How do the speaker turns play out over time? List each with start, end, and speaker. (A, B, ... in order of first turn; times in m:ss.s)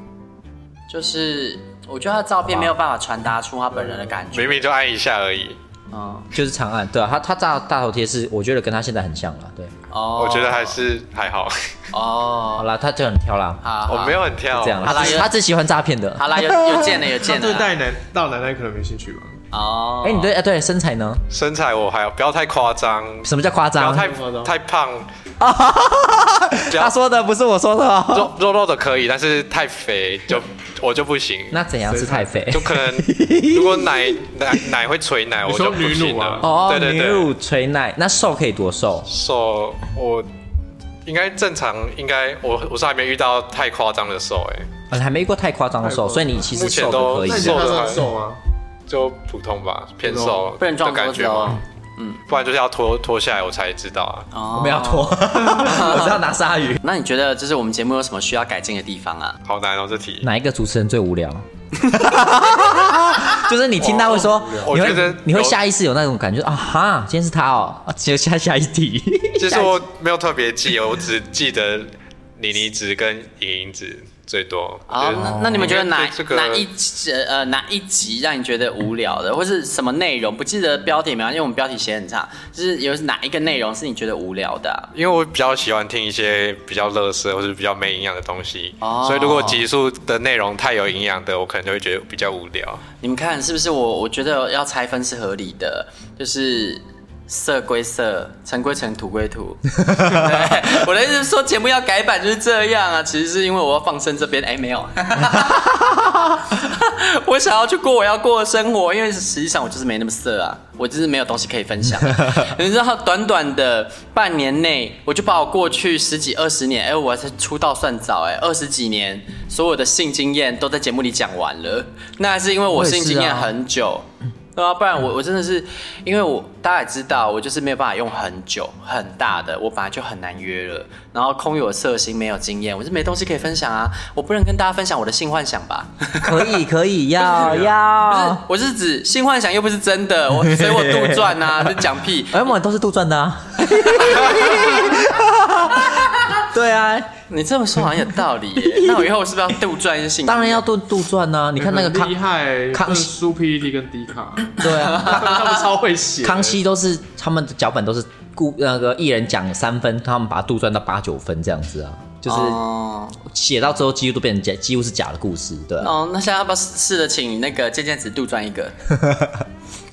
0:00.9-0:04.7 A
0:02.4-0:02.7 B
0:04.3-0:05.6 C
0:05.9-0:06.3 A
0:06.3-0:09.7 B
0:09.9-0:10.8 A
0:10.2-0:11.7 C
0:11.9-0:12.7 A
0:12.6-0:13.6 B
0:13.6-0:14.2 A
0:13.9-0:15.2 C
0:14.5-0:16.9 B
0:14.8-0:15.3 A
0:16.2-0:17.7 A
0:17.1-0:19.4 D
0:19.5-0:20.3 A
0:20.0-0:21.2 B
0:21.3-0:25.1 C
0:23.2-0:24.1 B
0:23.9-0:24.5 D
0:25.4-0:28.3 B
0:26.7-0:27.0 C
0:28.1-0:31.6 C
0:31.5-0:34.7 B
0:31.9-0:32.4 D
0:32.5-0:37.3 C
0:35.4-0:36.5 D
0:36.4-0:39.1 B
0:39.1-0:40.3 C
0:41.0-0:44.7 C
0:44.9-0:47.8 B
0:45.8-0:46.5 D
0:46.5-0:48.1 C
0:47.2-0:48.4 D
0:48.9-0:51.6 C
0:50.0-0:50.5 D
0:50.6-0:52.2 A
0:52.3-0:54.3 C
0:54.3-0:56.2 A
0:54.5-0:56.8 B
0:56.8-0:59.4 A
0:59.4-1:00.3 C
1:00.2-1:09.8 B
1:03.8-1:05.1 D
1:04.6-1:05.6 C
1:09.4-1:16.7 C
1:14.9-1:24.9 A
1:15.1-1:15.7 B
1:24.9-1:32.8 C
1:28.8-1:29.6 A
1:33.0-2:16.5 A
2:02.7-2:03.5 B
2:16.2-2:18.4 B
2:17.2-2:22.5 A
2:20.4-2:27.1 B
2:23.7-2:24.9 A
2:25.9-2:26.4 A
2:27.3-2:30.6 A
2:28.6-2:29.1 B
2:30.2-2:32.2 B
2:31.6-2:36.6 D
2:32.7-2:33.1 B
2:34.6-2:35.5 B
2:36.2-2:42.6 B
2:42.3-2:43.2 A
2:43.2-2:46.0 B
2:45.8-2:48.8 A
2:48.9-2:49.5 B